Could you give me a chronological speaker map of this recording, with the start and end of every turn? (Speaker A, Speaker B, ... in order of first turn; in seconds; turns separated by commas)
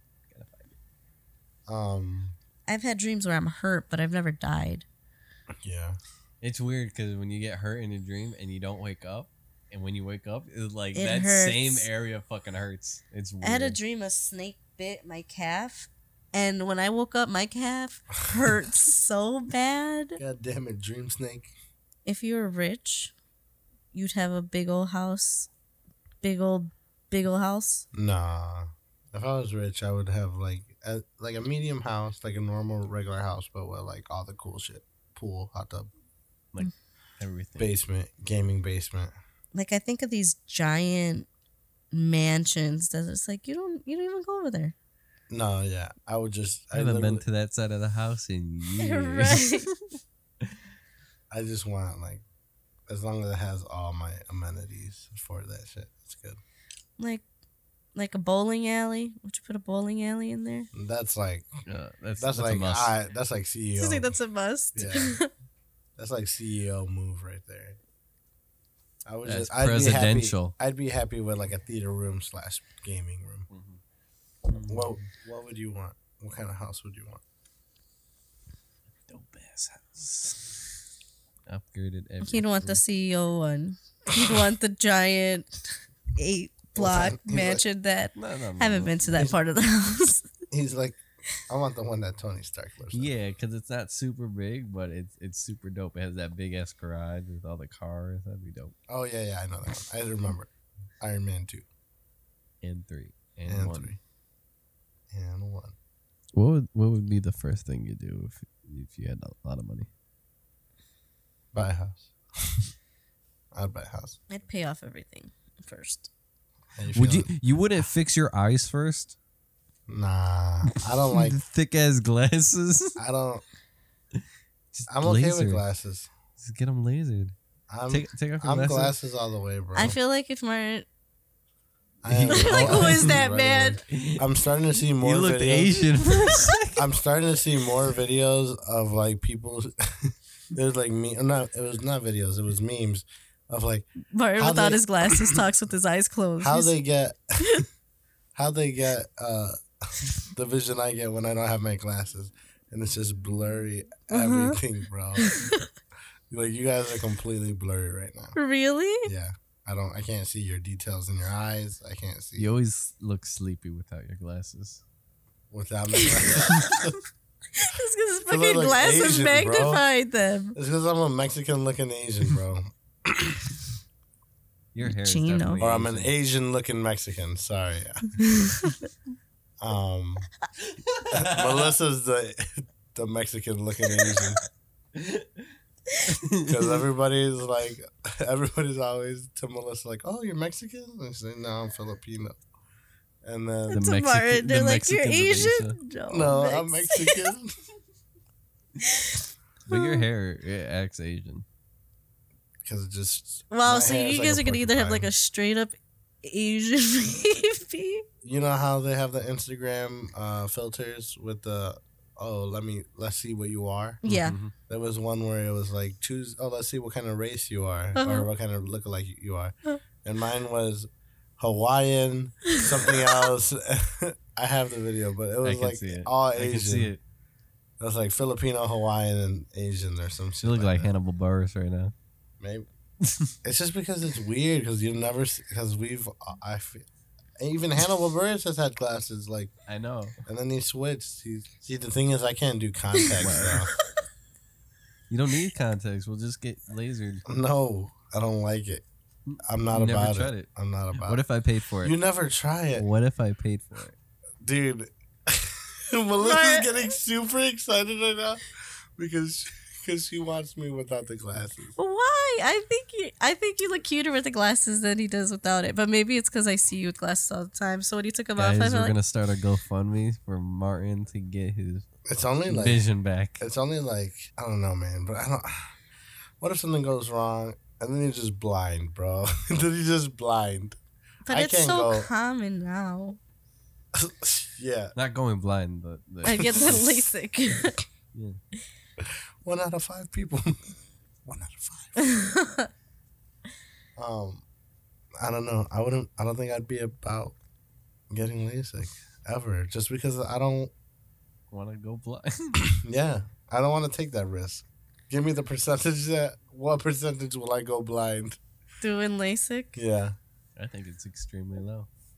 Speaker A: 0.3-0.7, Speaker B: 1.7-2.4, Speaker C: 2.7-4.8, Speaker B: 5.6-6.0, Speaker A: 6.4-13.8, Speaker C: 10.9-11.9, Speaker C: 13.4-20.2, Speaker B: 20.2-21.5, Speaker C: 22.0-23.1, Speaker C: 23.9-25.5, Speaker C: 26.2-27.9, Speaker B: 27.9-35.9, Speaker A: 36.5-37.7, Speaker B: 37.6-39.1, Speaker C: 39.5-41.3, Speaker C: 41.9-44.7, Speaker B: 45.3-47.2, Speaker A: 46.7-49.6, Speaker C: 48.8-49.7, Speaker B: 51.3-52.2, Speaker B: 52.9-56.4, Speaker C: 57.9-60.7, Speaker B: 60.7-61.5, Speaker A: 61.6-63.0, Speaker B: 62.2-64.1, Speaker C: 63.8-65.3, Speaker B: 64.7-65.2, Speaker B: 66.0-67.8, Speaker B: 69.0-73.5, Speaker A: 69.2-70.5, Speaker A: 73.5-73.8, Speaker A: 74.5-75.1, Speaker B: 74.7-77.2, Speaker A: 79.1-80.5, Speaker A: 81.5-82.8, Speaker C: 82.2-85.6, Speaker C: 86.2-90.3, Speaker B: 86.7-87.6, Speaker A: 88.1-89.2, Speaker B: 90.5-93.1, Speaker A: 92.9-98.7, Speaker B: 98.9-101.6, Speaker A: 102.6-104.0, Speaker B: 103.5-104.0, Speaker B: 105.1-105.7, Speaker A: 106.3-109.9, Speaker B: 111.5-112.6, Speaker B: 113.5-114.2, Speaker C: 114.3-116.1, Speaker B: 116.8-117.3, Speaker A: 116.9-119.1, Speaker B: 119.9-121.4, Speaker A: 121.1-123.0, Speaker B: 123.0-123.4, Speaker A: 124.7-125.6, Speaker B: 124.9-126.1, Speaker A: 126.4-127.3, Speaker B: 127.7-129.9, Speaker A: 127.9-128.9, Speaker C: 129.7-130.8, Speaker B: 132.0-135.8, Speaker A: 132.1-133.2, Speaker C: 132.1-133.8, Speaker A: 133.9-134.2, Speaker A: 134.8-136.8, Speaker B: 136.8-145.4, Speaker C: 144.1-146.7, Speaker B: 146.4-147.6, Speaker B: 148.3-155.3, Speaker C: 154.1-154.6, Speaker C: 155.2-155.6, Speaker B: 156.3-158.3, Speaker C: 158.3-159.1, Speaker B: 159.0-162.5, Speaker A: 162.4-164.8, Speaker B: 165.5-167.0, Speaker C: 166.0-166.7, Speaker C: 167.6-170.6, Speaker B: 168.3-169.8, Speaker B: 170.5-173.6, Speaker A: 174.7-176.1, Speaker C: 174.8-175.6, Speaker B: 175.6-178.2, Speaker C: 178.2-178.8, Speaker B: 179.6-180.3, Speaker A: 180.7-181.7, Speaker B: 181.1-184.4, Speaker A: 184.9-185.5, Speaker A: 186.0-186.8, Speaker B: 186.4-192.4, Speaker B: 193.2-193.8, Speaker C: 193.7-197.3, Speaker A: 193.7-195.8, Speaker B: 196.1-197.5, Speaker C: 198.8-200.0, Speaker A: 199.7-201.4, Speaker B: 202.6-205.1, Speaker C: 203.5-208.0, Speaker B: 208.2-214.0, Speaker C: 214.0-214.3, Speaker A: 214.1-214.5, Speaker B: 214.7-226.9, Speaker C: 217.9-218.3, Speaker A: 225.4-227.0, Speaker B: 227.8-230.9, Speaker A: 230.4-231.9, Speaker B: 232.4-232.7, Speaker A: 233.0-233.3, Speaker B: 233.4-236.8, Speaker B: 237.4-239.5, Speaker A: 239.7-240.2, Speaker B: 240.2-243.7, Speaker A: 243.2-243.6, Speaker A: 245.1-247.2, Speaker B: 247.2-248.8, Speaker A: 249.3-251.9, Speaker B: 249.4-251.2, Speaker B: 251.8-252.8, Speaker A: 252.7-253.9, Speaker B: 254.4-258.4, Speaker C: 256.2-256.9, Speaker B: 259.0-261.7, Speaker C: 261.8-268.9, Speaker A: 268.4-271.9, Speaker B: 272.1-272.8, Speaker A: 272.4-273.4, Speaker B: 273.4-275.8, Speaker B: 276.4-280.8, Speaker C: 281.2-283.2, Speaker B: 281.3-282.1, Speaker B: 283.9-284.9, Speaker A: 284.9-286.8, Speaker C: 286.2-287.8, Speaker B: 286.4-287.0, Speaker A: 288.1-288.4, Speaker B: 289.0-292.1, Speaker C: 292.0-292.7, Speaker B: 293.9-294.4, Speaker B: 295.2-297.4, Speaker B: 298.1-300.7, Speaker A: 301.5-302.6, Speaker B: 302.6-308.4, Speaker C: 308.8-309.8, Speaker B: 309.8-310.1, Speaker A: 310.6-311.9